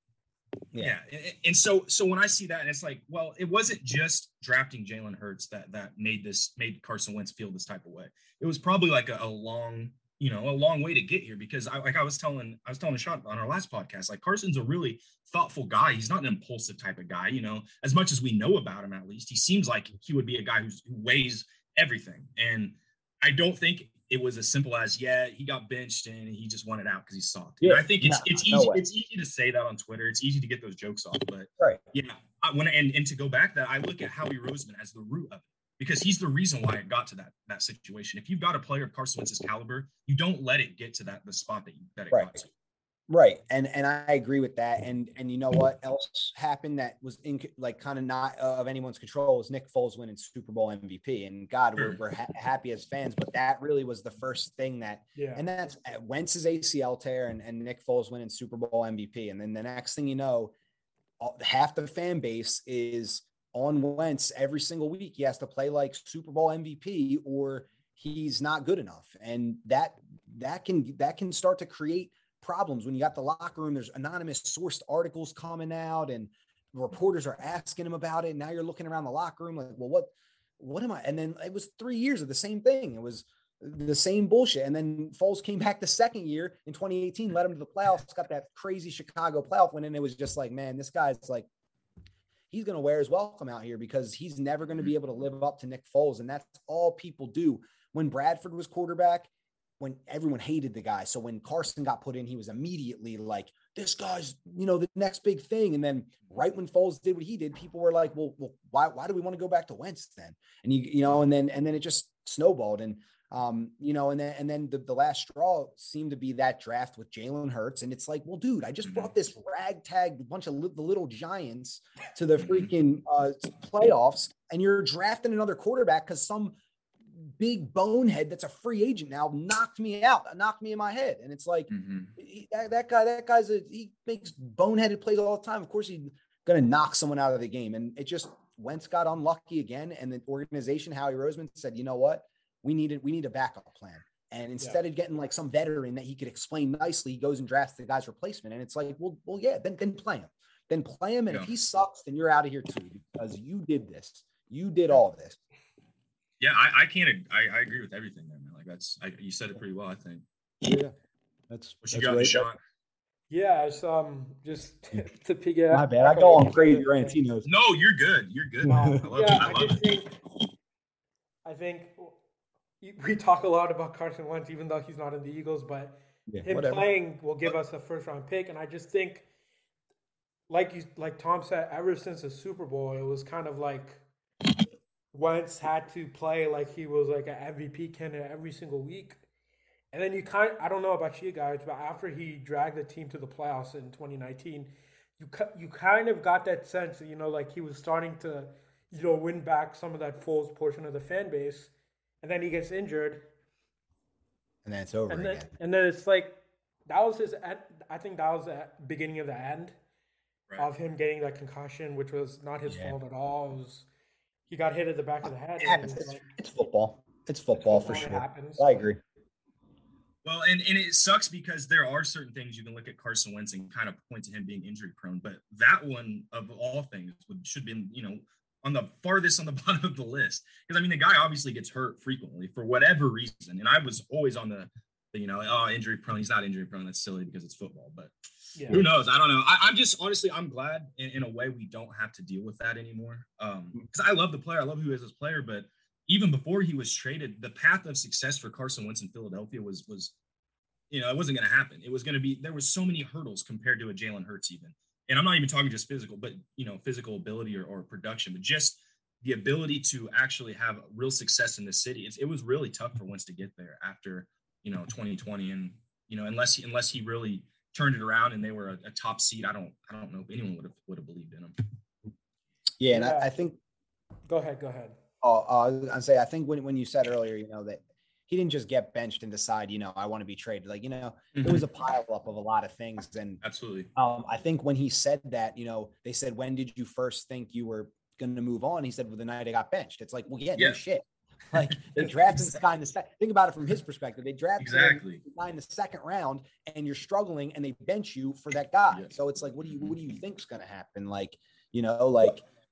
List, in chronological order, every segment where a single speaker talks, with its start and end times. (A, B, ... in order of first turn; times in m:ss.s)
0:00.8-0:42.5 A
0:27.6-0:28.8 B
0:42.1-0:42.4 B
0:43.1-1:00.6 B
0:55.2-0:55.5 C
1:01.2-1:31.5 B
1:32.5-2:06.6 B
2:02.4-2:02.7 A
2:07.1-2:35.4 B
2:11.7-2:12.1 A
2:36.4-2:40.2 A
2:40.6-2:40.9 B
2:41.5-2:42.5 B
2:41.8-2:42.6 A
2:43.3-2:47.2 C
2:45.7-2:47.5 B
2:47.4-2:49.8 A
2:48.7-2:50.2 C
2:51.4-2:52.2 C
2:52.8-2:59.3 C
2:56.3-2:56.9 B
3:00.5-3:04.0 C
3:05.1-3:09.2 C
3:09.9-3:23.3 C
3:24.6-3:25.5 B
3:25.1-3:29.8 C
3:30.6-3:33.9 C
3:32.7-3:33.0 B
3:34.5-3:36.3 C
3:35.6-3:39.0 B
3:37.6-3:38.8 C
3:40.2-3:58.1 A
3:58.6-3:58.8 C
3:58.7-4:10.2 A
4:10.9-4:31.6 A
4:32.8-4:33.6 B
4:32.9-4:33.3 C
4:34.3-4:35.0 C
4:35.2-4:43.4 B
4:41.4-4:41.7 A
4:43.4-4:43.9 A
4:44.0-5:02.4 B
4:51.6-4:52.5 A
4:54.6-4:55.2 A